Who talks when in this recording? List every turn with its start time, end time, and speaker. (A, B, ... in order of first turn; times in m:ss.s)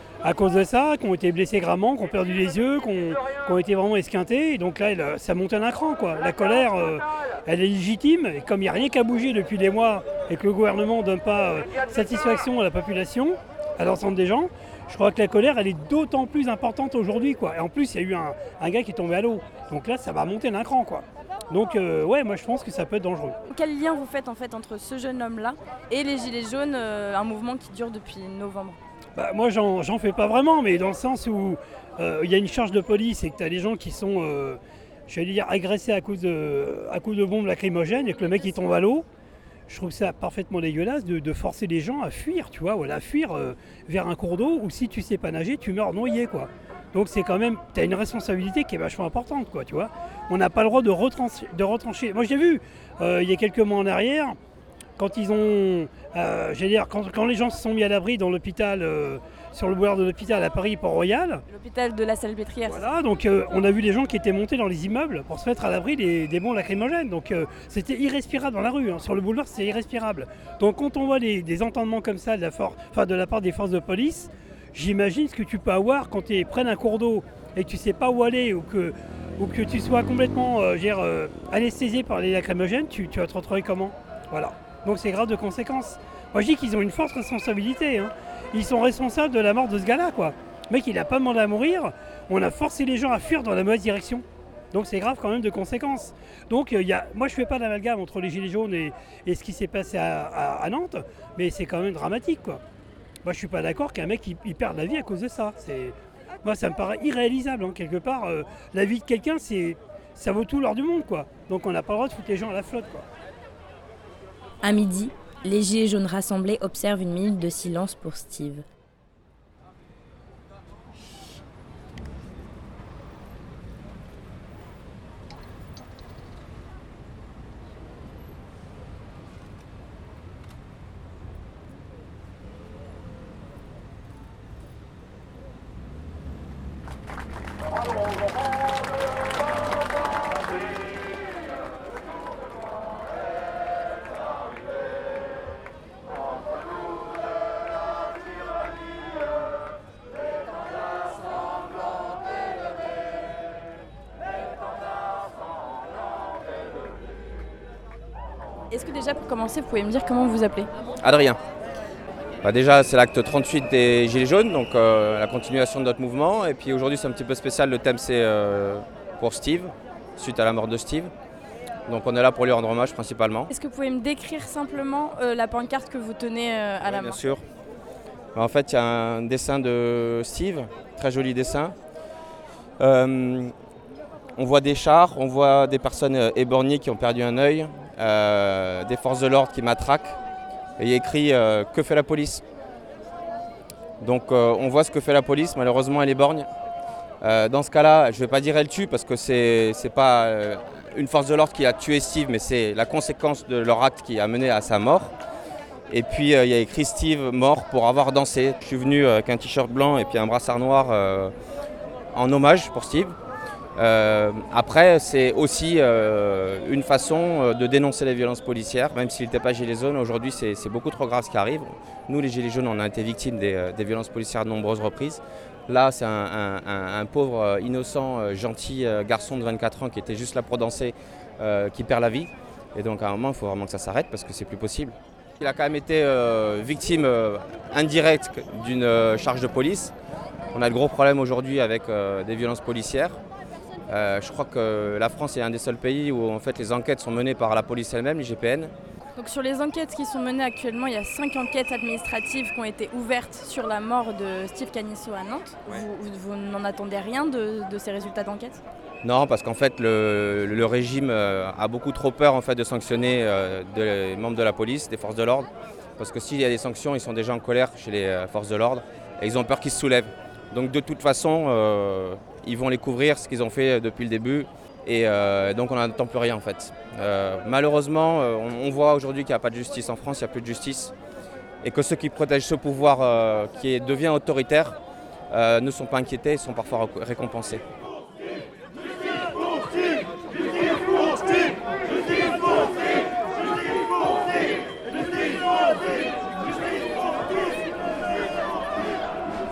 0:00.2-0:23.4 A
0:23.5-0:28.8 B
0:29.1-0:39.0 A
0:39.7-0:54.4 A
0:55.0-1:01.4 A
1:01.5-1:02.8 B
1:02.6-1:42.6 A
1:43.2-1:53.1 A
1:54.6-1:58.6 C
1:54.7-1:55.0 B
1:55.5-1:58.6 B
2:38.7-2:40.7 B
2:41.0-2:41.4 D
2:42.4-2:51.1 D
2:51.8-2:53.5 D
2:53.5-2:57.2 B
2:56.8-2:57.4 D
2:58.3-3:01.8 D
3:02.8-3:03.5 D
3:04.4-3:10.2 D
3:10.8-3:12.4 D
3:14.0-3:16.5 D
3:17.2-3:25.1 D
3:25.9-3:31.3 D
3:32.1-3:33.2 D
3:33.8-3:59.9 D
4:00.5-4:03.2 D
4:03.9-4:08.7 D
4:09.1-4:18.6 B
4:19.0-4:40.9 D
4:41.6-4:44.8 D
4:45.3-4:47.6 D